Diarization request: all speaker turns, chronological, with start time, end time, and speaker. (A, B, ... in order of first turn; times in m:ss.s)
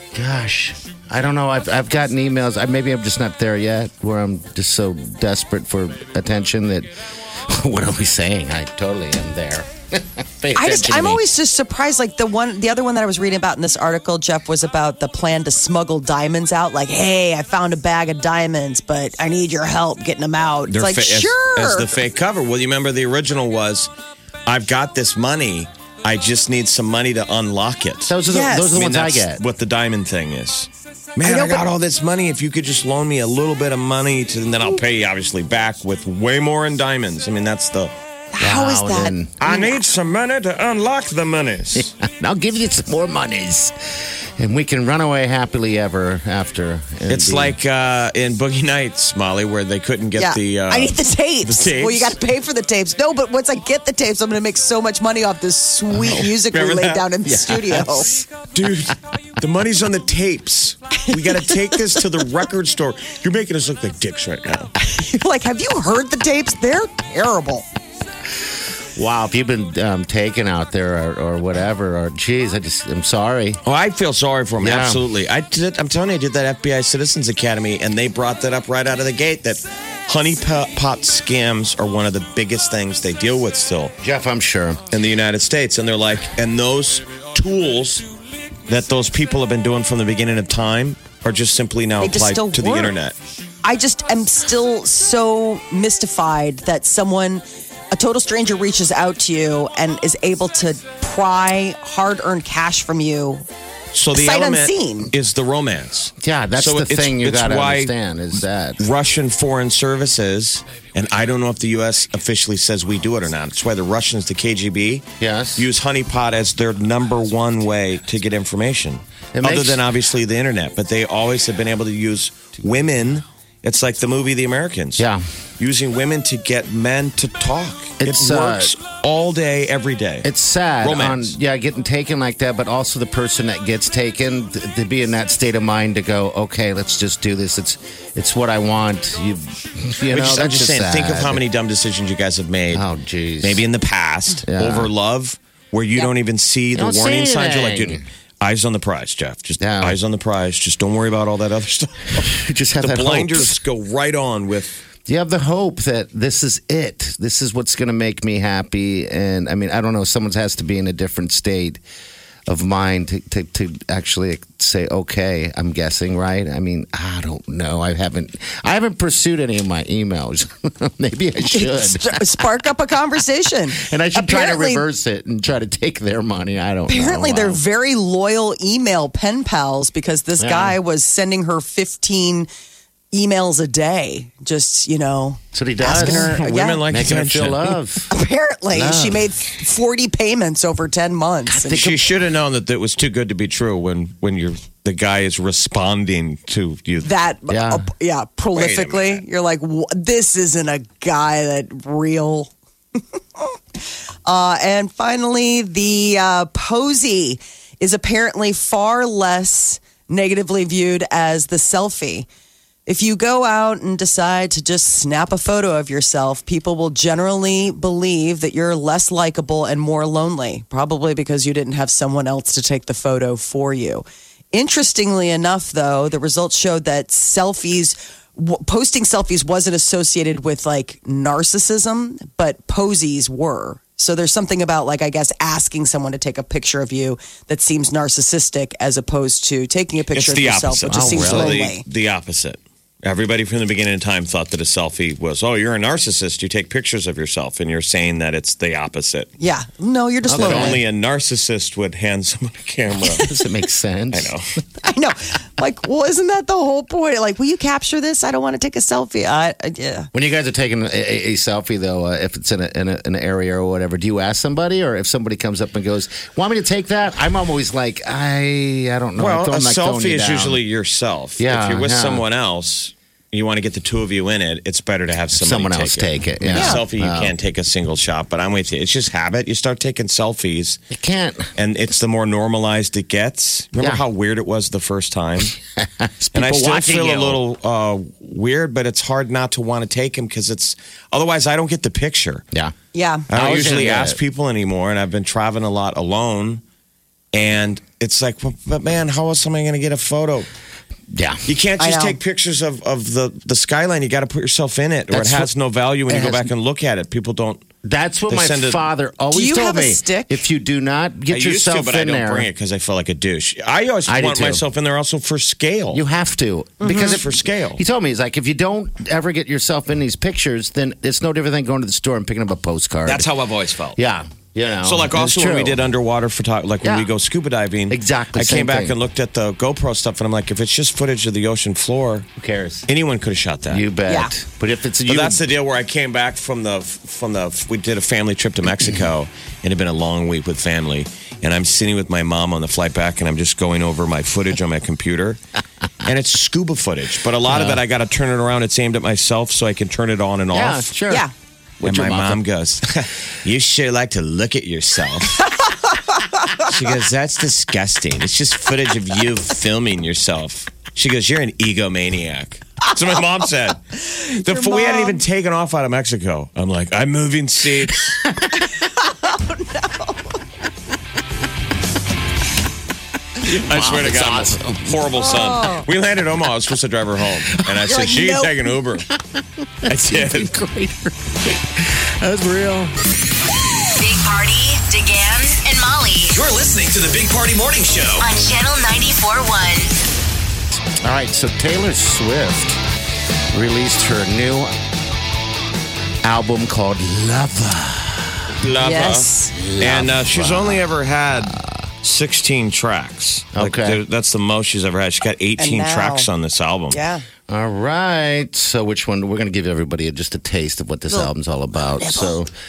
0:00.1-0:11.2 A
0:10.6-0:21.9 B
0:20.7-0:23.9 C
0:24.5-0:28.2 C
0:28.1-0:29.4 A
0:28.3-0:28.8 B
0:28.7-0:37.9 C
0:31.2-0:31.6 B
0:38.3-0:39.8 B
0:38.4-0:39.4 A
0:39.4-0:42.0 C
0:41.8-0:47.6 A
0:47.1-0:52.2 C
0:50.2-0:58.1 B
0:56.0-0:57.9 C
0:57.3-0:58.3 A
0:58.4-1:04.7 C
1:01.1-1:01.8 B
1:04.9-1:07.7 B
1:09.0-1:13.6 A
1:13.6-1:24.0 C
1:14.6-1:15.0 A
1:24.0-1:24.9 A
1:24.9-1:28.1 C
1:28.7-1:33.2 C
1:32.0-1:32.9 B
1:33.6-1:43.4 B
1:43.9-2:05.1 C
1:44.1-1:45.1 B
1:46.2-1:48.8 A
1:55.2-1:55.7 A
1:59.3-1:59.8 A
2:05.0-2:05.2 A
2:05.6-2:10.3 C
2:08.0-2:08.8 A
2:10.2-2:21.4 A
2:10.8-2:11.3 C
2:20.1-2:22.8 C
2:22.7-2:23.6 A
2:23.4-2:34.8 C
2:24.5-2:24.9 A
2:26.8-2:28.0 A
2:29.6-2:30.0 A
2:32.2-2:33.6 A
2:35.1-2:41.8 A
2:42.5-2:52.5 A
2:51.5-2:54.8 B
2:53.8-2:57.6 A
2:56.9-3:02.5 B
3:00.4-3:00.8 A
3:03.1-3:06.8 B
3:05.5-3:08.1 A
3:06.0-3:07.8 C
3:08.1-3:11.9 B
3:08.7-3:09.3 A
3:11.5-3:11.9 A
3:11.6-3:17.1 C
3:17.0-3:22.5 B
3:17.5-3:17.8 A
3:18.5-3:19.2 C
3:24.3-3:32.3 B
3:32.9-4:01.8 B
4:00.1-4:09.3 C
4:00.9-4:01.6 A
4:09.4-4:10.8 B
4:10.3-4:10.8 A
4:10.3-4:13.3 C
4:13.1-4:14.3 A
4:14.1-4:14.5 C
4:14.8-4:20.1 B
4:20.1-4:30.6 A
4:29.2-4:40.8 C
4:31.4-4:32.2 A
4:35.4-4:37.3 A
4:36.5-4:36.8 B
4:40.9-4:41.5 A
4:41.6-4:45.5 C
4:45.5-4:47.4 A
4:46.3-4:52.4 C
4:52.9-4:53.3 B
4:53.3-4:54.2 A
4:53.3-4:56.6 C
4:57.3-5:00.5 C
5:01.1-5:01.4 A
5:01.5-5:07.6 C
5:01.8-5:02.2 B
5:05.1-5:05.5 A
5:06.1-5:06.5 A
5:07.8-5:12.5 A
5:08.3-5:08.8 C
5:09.3-5:10.4 B
5:11.3-5:16.0 C
5:14.1-5:14.6 A
5:15.9-5:23.3 A
5:16.8-5:17.1 B
5:16.9-5:17.8 C
5:23.1-5:24.0 C
5:24.0-5:25.8 A
5:24.8-5:32.3 C
5:26.8-5:27.1 A
5:27.9-5:29.0 A
5:32.4-5:32.9 A
5:32.9-5:33.9 C
5:33.7-5:35.4 A
5:35.1-5:45.4 C
5:46.0-5:50.9 C
5:47.5-5:47.8 A
5:50.5-5:51.3 A
5:51.8-5:52.4 A
5:51.8-5:55.5 C
5:56.6-6:08.3 C
6:04.5-6:05.2 B
6:08.8-6:10.4 B
6:13.4-6:15.0 A
6:13.4-6:19.1 C
6:15.2-6:15.9 B
6:17.9-6:18.5 B
6:19.1-6:22.9 A
6:19.9-6:20.5 C
6:24.0-6:26.4 D
6:26.3-6:28.3 E
6:28.2-6:30.0 D
6:31.0-6:32.8 A
6:33.5-6:34.7 A
6:36.2-6:38.5 A
6:38.6-6:47.0 C
6:38.8-6:39.6 B
6:39.6-6:41.9 A
6:43.6-6:44.0 A
6:45.6-6:46.3 B
6:46.9-6:47.2 B
6:47.5-6:52.5 A
6:51.1-6:52.4 B